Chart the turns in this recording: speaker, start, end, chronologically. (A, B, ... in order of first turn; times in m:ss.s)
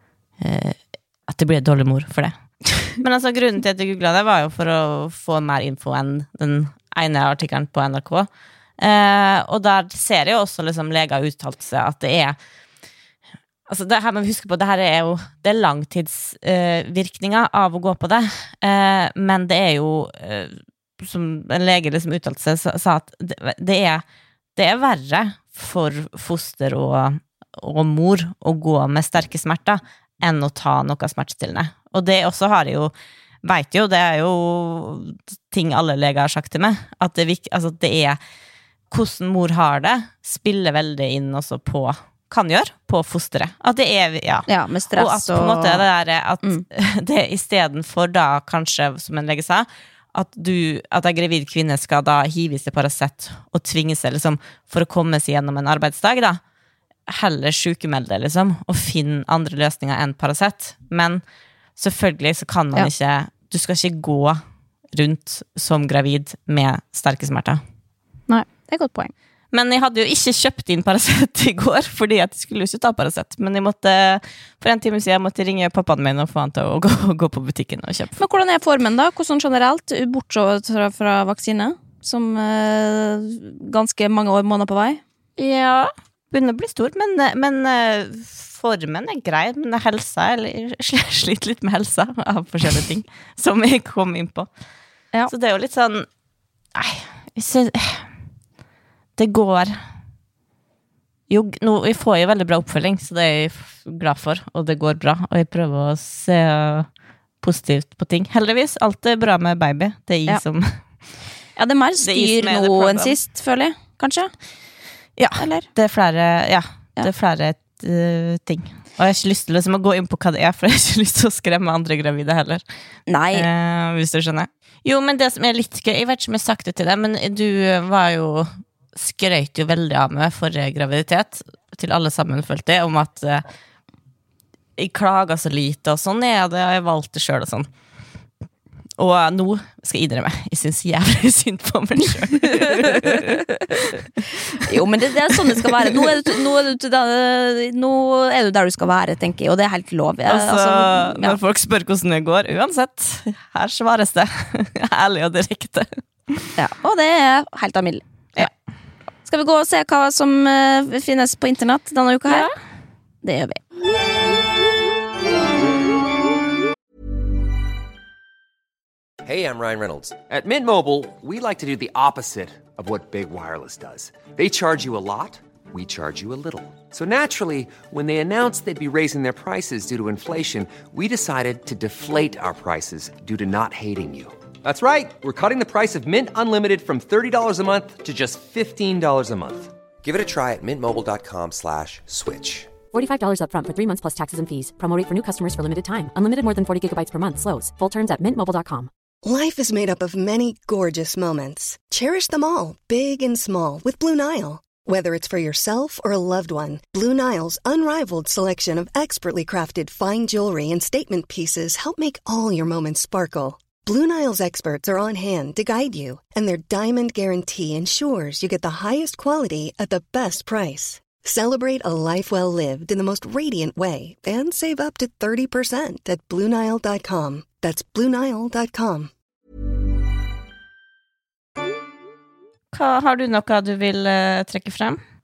0:00.4-0:12.4 A
0:13.7-0:24.0 A
0:24.6-0:38.2 A
0:38.9-0:56.4 A
0:44.5-0:45.8 B
0:57.1-1:01.2 A
1:01.8-1:07.6 A
1:08.3-1:09.1 B
1:09.5-1:18.2 A
1:18.2-1:25.0 B
1:25.4-1:34.5 A
1:35.3-1:36.1 A
1:36.7-1:38.1 A
1:39.2-1:39.8 A
1:41.3-1:46.9 A
1:47.4-1:50.8 A
1:51.6-1:54.3 B
1:52.0-1:53.2 A
1:55.2-2:02.6 A
1:55.4-1:55.7 B
2:03.1-2:03.5 B
2:03.3-2:13.4 A
2:14.8-2:17.7 A
2:19.0-2:26.3 A
2:22.7-2:23.3 B
2:24.6-2:31.4 B
2:30.2-2:36.6 A
2:36.6-2:38.5 B
2:39.2-2:42.5 B
2:42.3-2:42.5 A
2:43.2-2:43.6 B
2:49.2-3:12.7 C
3:12.9-3:18.9 D
3:19.2-3:49.1 E
3:52.7-3:55.0 A